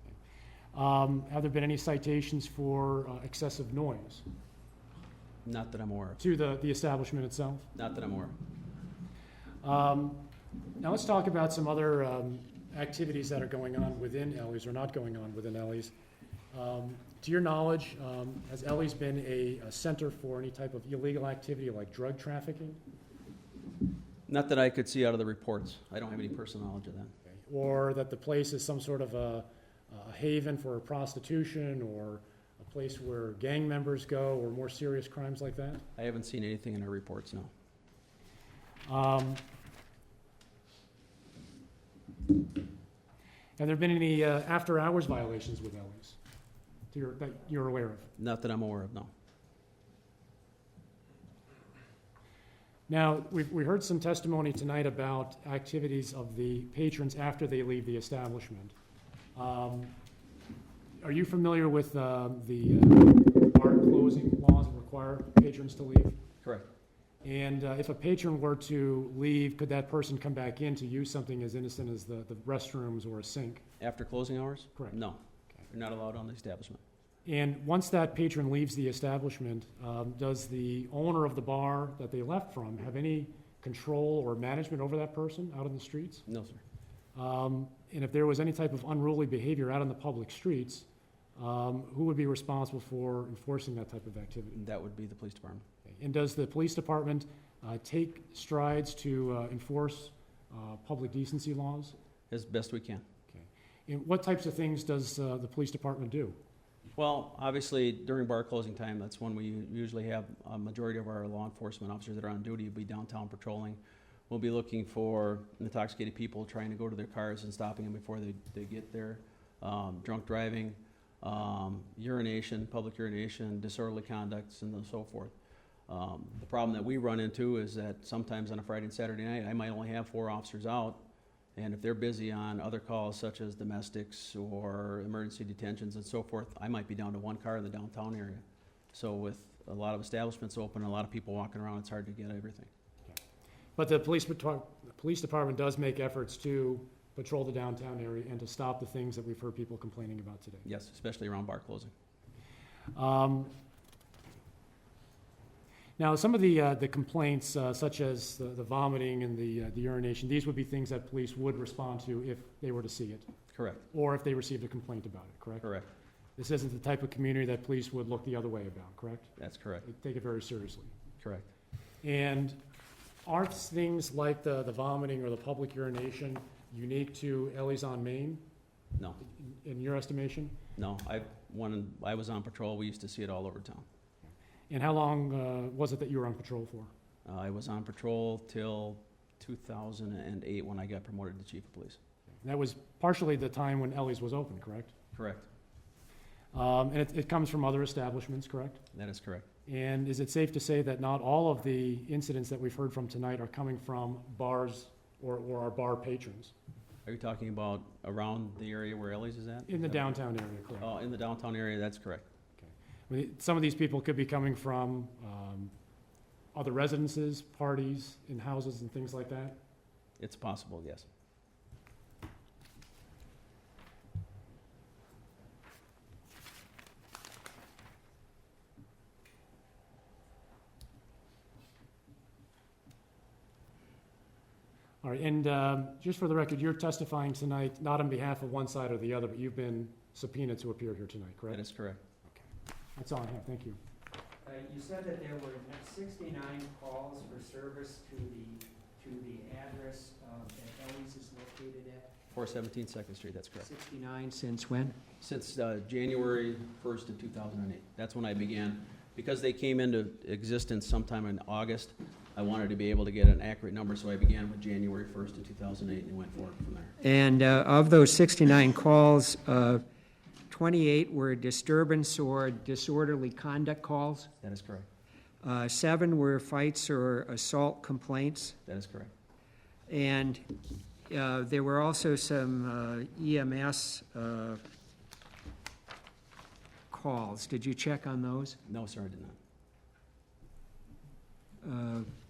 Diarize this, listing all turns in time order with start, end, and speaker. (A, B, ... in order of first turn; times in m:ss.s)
0:00.7-0:04.2 A
0:05.4-0:06.2 B
0:06.2-0:07.7 A
0:07.7-0:08.4 B
0:09.6-0:10.2 A
0:10.8-0:15.9 A
0:16.5-0:22.8 A
0:24.3-0:27.1 B
0:27.5-0:35.8 A
0:36.0-0:37.5 B
0:38.8-0:39.4 A
0:43.6-0:46.2 A
0:46.9-0:48.1 A
0:48.2-0:49.1 B
0:52.9-0:58.7 A
0:59.3-0:59.9 A
1:01.0-1:06.2 A
1:07.2-1:13.6 A
1:13.8-1:16.8 B
1:17.2-1:26.2 A
1:26.3-1:26.6 B
1:27.1-1:30.8 A
1:31.4-1:34.6 A
1:34.5-1:35.6 B
1:36.0-1:41.9 A
1:42.3-1:43.0 B
1:43.3-1:46.4 A
1:47.0-2:05.3 B
2:05.9-2:11.0 B
2:11.6-2:22.7 B
2:23.8-2:30.6 A
2:30.6-2:31.9 B
2:32.9-2:33.5 A
2:36.0-2:43.3 A
2:43.5-2:43.8 B
2:43.9-2:45.7 A
2:45.6-2:45.9 B
2:46.4-2:50.9 A
2:49.4-2:49.8 B
2:51.2-2:51.5 B
2:52.0-2:52.6 A
2:53.2-2:58.4 A
2:59.2-3:00.6 A
3:00.8-3:03.8 B
3:04.7-3:06.9 A
3:07.2-3:12.0 B
3:12.4-3:14.9 A
3:15.1-3:15.5 B
3:16.5-3:18.8 A
3:18.9-3:19.4 B
3:19.7-3:26.5 A
3:27.0-3:30.0 B
3:29.7-3:30.9 A
3:30.8-3:32.2 B
3:32.6-3:35.7 A
3:36.5-3:39.6 A
3:40.2-3:41.1 B
3:55.0-4:01.6 A
4:01.5-4:02.0 B
4:03.0-4:03.8 A
4:04.4-4:12.1 C
4:12.3-4:13.7 B
4:13.6-4:15.0 C
4:15.2-4:26.9 B
4:27.0-4:29.8 C
4:30.5-4:34.3 C
4:34.4-4:34.9 B
4:35.4-4:38.6 C
4:38.7-4:39.1 B
4:39.9-4:40.4 C
4:41.1-4:44.6 C
4:46.9-4:48.6 C
4:48.7-4:49.4 B
4:51.6-4:52.1 C